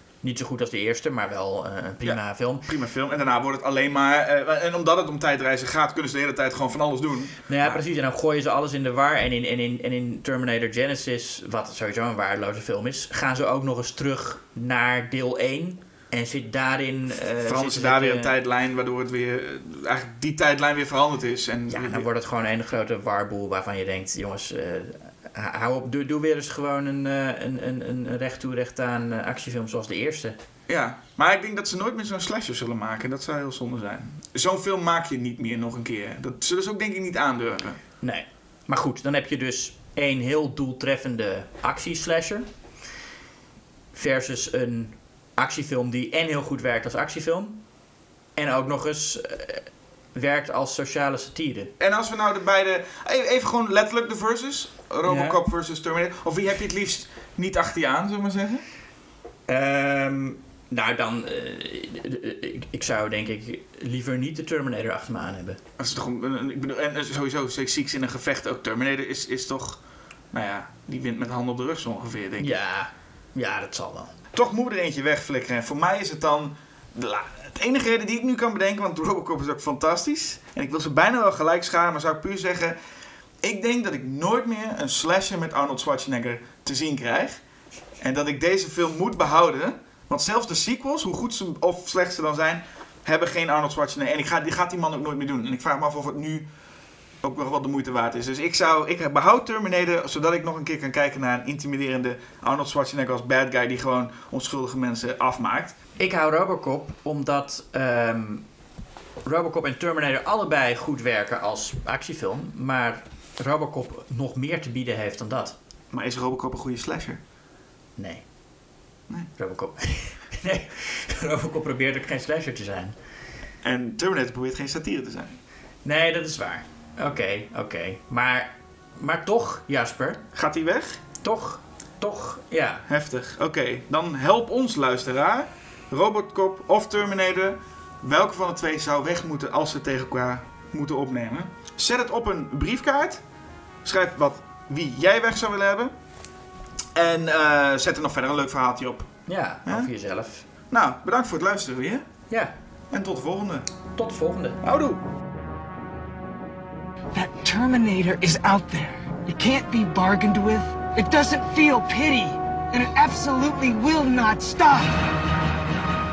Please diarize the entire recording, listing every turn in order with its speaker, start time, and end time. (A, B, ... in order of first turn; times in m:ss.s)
0:00.2-0:02.7 A
0:02.0-0:07.8 B
0:07.5-0:18.3 A
0:17.4-0:22.0 B
0:21.7-0:30.4 A
0:30.7-0:37.8 B
0:38.0-0:42.4 A
0:43.9-0:47.6 A
0:48.4-0:51.7 A
0:51.8-0:58.6 B
0:55.1-0:55.4 A
0:59.5-1:05.6 A
1:05.8-1:09.8 B
1:10.3-1:12.6 B
1:12.4-1:14.1 A
1:14.3-1:22.8 B
1:23.4-1:27.4 B
1:28.0-1:36.4 B
1:37.2-1:45.8 B
1:46.0-1:48.4 A
1:49.2-1:55.6 A
1:55.9-1:57.2 B
1:58.0-1:58.2 A
1:59.4-2:02.9 A
2:03.6-2:05.3 B
2:05.8-2:10.2 A
2:10.3-2:11.0 B
2:11.2-2:12.8 A
2:12.9-2:23.2 B
2:23.8-2:25.9 B
2:26.9-2:29.1 B
2:29.3-2:30.4 A
2:29.6-2:29.9 B
2:30.7-2:32.0 B
2:32.9-2:33.7 B
2:34.0-2:34.6 A
2:34.6-2:35.0 B
2:37.1-2:45.1 C